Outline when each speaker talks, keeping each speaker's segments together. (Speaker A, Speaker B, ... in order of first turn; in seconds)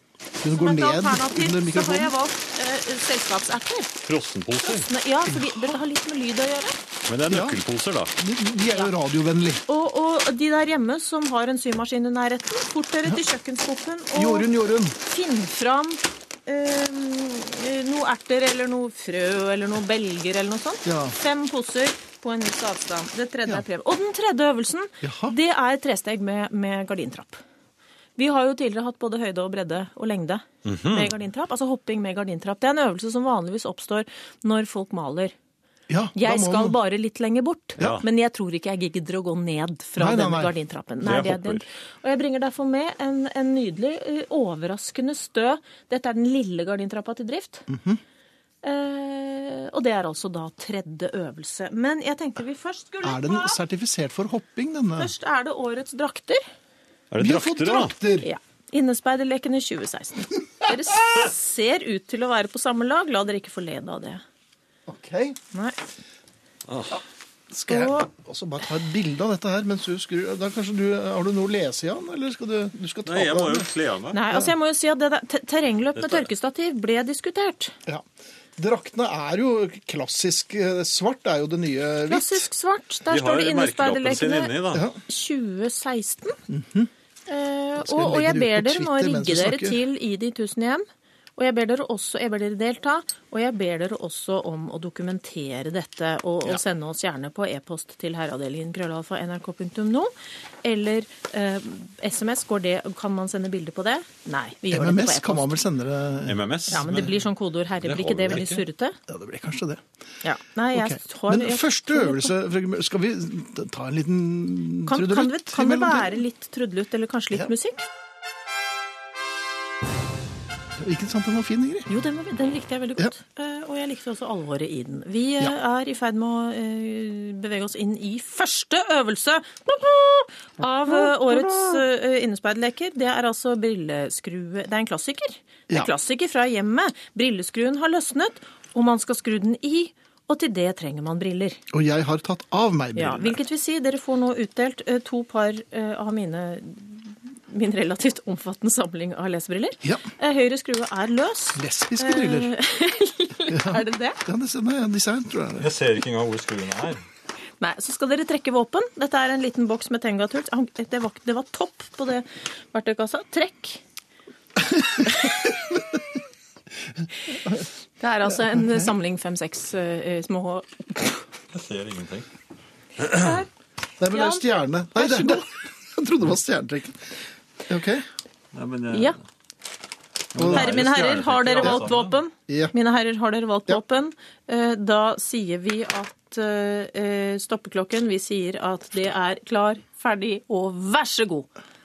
Speaker A: 0.4-2.1, 5.3-5.7, 7.3-7.6, 8.2-9.6, 14.1-15.0, 20.8-21.1, 25.0-25.3, 35.9-36.8, 40.0-40.5, 47.7-48.0, 53.0-55.1, 57.2-58.3, 64.9-65.4, 67.5-73.7, 78.6-82.5, 84.7-85.0, 86.5-86.9, 87.8-89.8, 104.7-107.1, 109.1-109.8, 110.7-116.2, 120.8-121.9, 130.9-131.8, 141.7-143.3, 151.6-152.5, 153.5-155.7, 164.7-166.0, 168.3-168.9, 174.0-178.1, 180.3-180.8, 181.6-181.8, 182.5-182.7
Speaker B: 0.5-4.0, 4.6-6.8, 9.7-14.5, 15.0-27.4, 28.2-35.3, 36.1-47.6, 48.6-53.6, 55.0-56.4, 58.2-64.2, 65.5-65.8, 67.7-68.1, 74.1-77.8, 82.1-86.4, 87.3-90.8, 91.4-100.1, 100.6-105.5, 106.7-109.0, 110.2-112.3, 114.9-117.8, 121.9-141.6, 142.9-154.2, 157.6-163.8, 165.1-165.4, 168.0-171.2, 173.1-173.5, 174.1-174.4, 174.9-175.4, 178.9-179.2, 180.5-191.5
Speaker C: 4.0-4.9, 7.1-8.1, 30.6-31.1, 41.0-41.6, 57.1-57.9, 66.7-67.0, 73.0-74.2, 76.0-76.3, 83.1-84.8, 106.2-107.1, 107.8-108.6, 155.6-157.0, 171.5-172.3, 178.5-179.2, 180.3-182.2